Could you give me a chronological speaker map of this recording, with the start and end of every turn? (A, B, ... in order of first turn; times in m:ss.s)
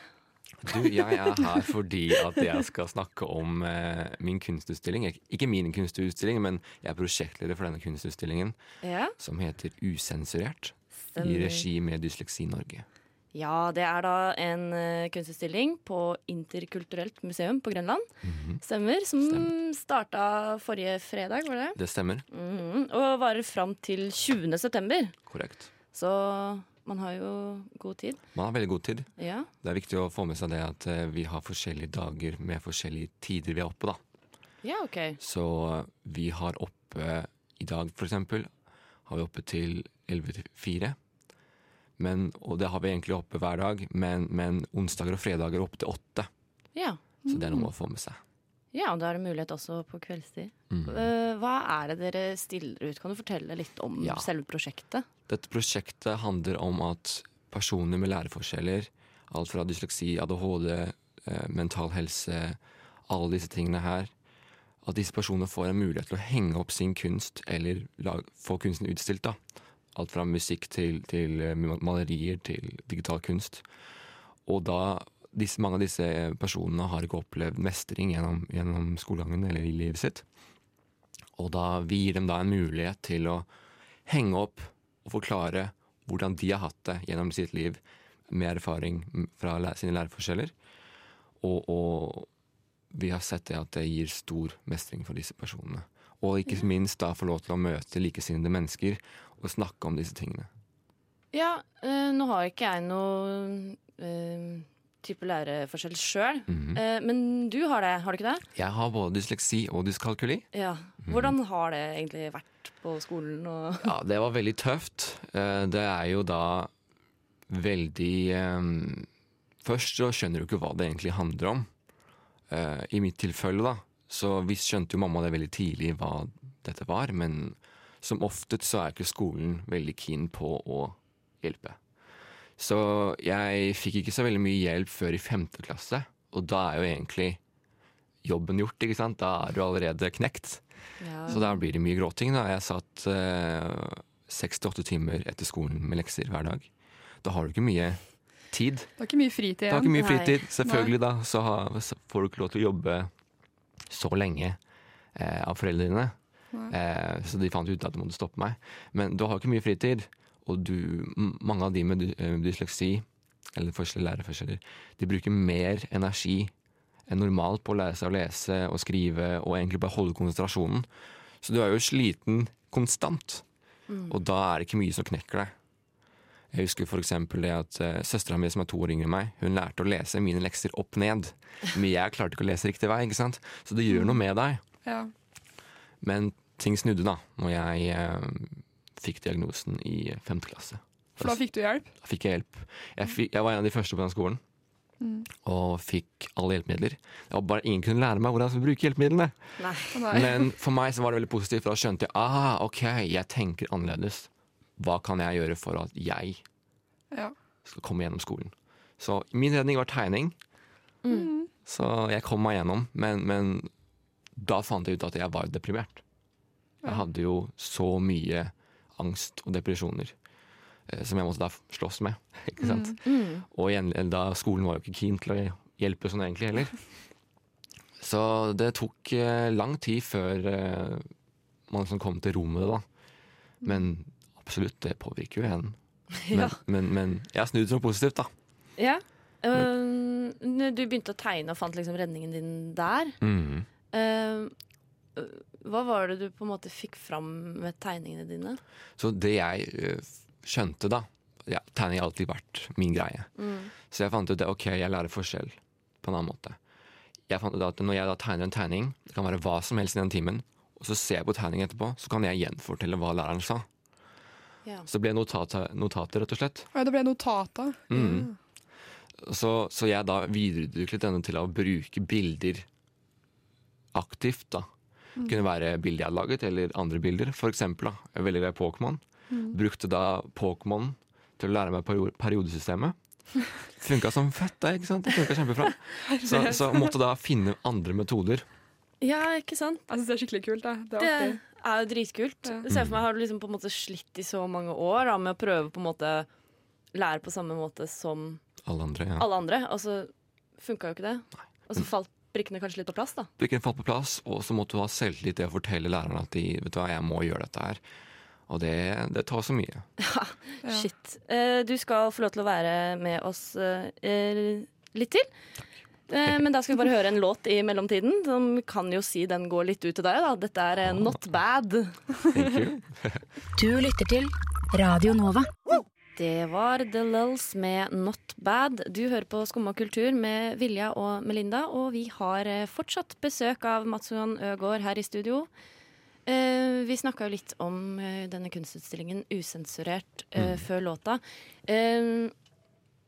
0:00.6-0:08.6 A
0:08.8-0:09.1 B
0:09.2-0:12.8 A
0:11.0-0:11.6 B
0:13.3-0:18.1 B
0:18.2-0:18.6 A
0:18.6-0:21.8 B
0:19.2-0:19.5 A
0:21.8-0:22.2 A
0:22.3-0:25.2 B
0:25.3-0:25.7 A
0:25.9-0:28.2 B
0:28.3-0:34.0 A
0:29.2-0:29.5 B
0:34.6-0:35.2 B
0:35.2-0:38.5 A
0:39.0-0:41.0 A
0:42.0-0:46.3 A
0:46.7-0:47.0 B
0:47.2-0:47.6 C
0:47.3-0:48.2 A
0:48.7-0:55.0 B
0:50.7-0:51.1 A
0:54.0-0:54.3 A
0:55.3-1:04.1 A
1:04.8-1:09.4 A
1:09.9-1:13.6 A
1:14.4-1:20.2 A
1:21.4-1:23.5 A
1:24.0-1:30.5 A
1:31.4-1:32.3 A
1:32.9-1:40.5 A
1:41.3-1:48.4 B
1:46.5-1:46.8 A
1:48.5-1:50.5 A
1:50.5-1:53.9 B
1:51.0-1:51.3 A
1:53.8-1:56.7 A
1:57.5-1:59.1 A
1:59.6-2:01.7 A
2:02.5-2:11.8 A
2:12.6-2:17.4 A
2:18.2-2:26.7 A
2:21.0-2:21.4 B
2:27.2-2:28.9 A
2:29.0-2:29.9 C
2:29.7-2:33.1 A
2:30.0-2:30.4 B
2:30.6-2:30.9 C
2:33.8-2:34.6 A
2:35.1-2:36.2 A
2:36.7-2:46.5 A
2:47.1-2:50.9 A
2:51.4-2:53.4 A
2:53.9-2:54.2 B
2:54.1-2:55.5 A
2:56.5-3:04.6 A
3:04.8-3:05.1 C
3:06.0-3:11.4 A
3:11.2-3:11.9 C
3:12.0-3:14.4 A
3:15.0-3:15.3 C
3:15.4-3:26.4 A
3:19.6-3:20.0 B
3:19.9-3:20.4 C
3:27.6-3:30.4 A
3:31.0-3:31.3 B
3:31.1-3:31.5 C
3:31.6-3:33.7 A
3:34.4-3:36.0 A
3:36.8-3:40.1 A
3:40.9-3:46.8 A
3:42.6-3:43.0 C
3:43.0-3:43.4 B
3:48.0-3:51.1 A
3:51.7-3:52.8 A
3:53.6-3:58.3 A
3:56.2-3:56.6 B
3:58.8-4:03.2 B
4:03.2-4:03.7 A
4:03.9-4:04.5 B
4:05.1-4:08.6 B
4:09.0-4:16.6 A
4:13.4-4:13.7 B
4:17.3-4:23.7 A
4:24.8-4:26.7 A
4:26.7-4:28.3 C
4:27.9-4:28.3 A
4:29.2-4:32.7 A
4:33.9-4:34.7 A
4:35.2-4:43.0 A
4:39.3-4:39.6 C
4:43.6-4:48.4 A
4:46.0-4:46.9 C
4:49.0-4:49.8 B
4:49.9-4:51.4 C
4:51.0-4:56.3 B
4:52.7-4:53.0 A
4:56.9-4:58.4 B
4:58.6-4:59.2 A
4:59.2-5:03.3 B
5:03.4-5:07.8 A
5:08.5-5:09.9 A
5:10.0-5:15.3 B
5:16.1-5:22.0 B
5:20.8-5:21.1 A
5:22.3-5:23.2 A
5:23.6-5:25.5 D
5:26.2-5:35.5 B
5:36.2-5:42.3 B
5:40.4-5:40.6 A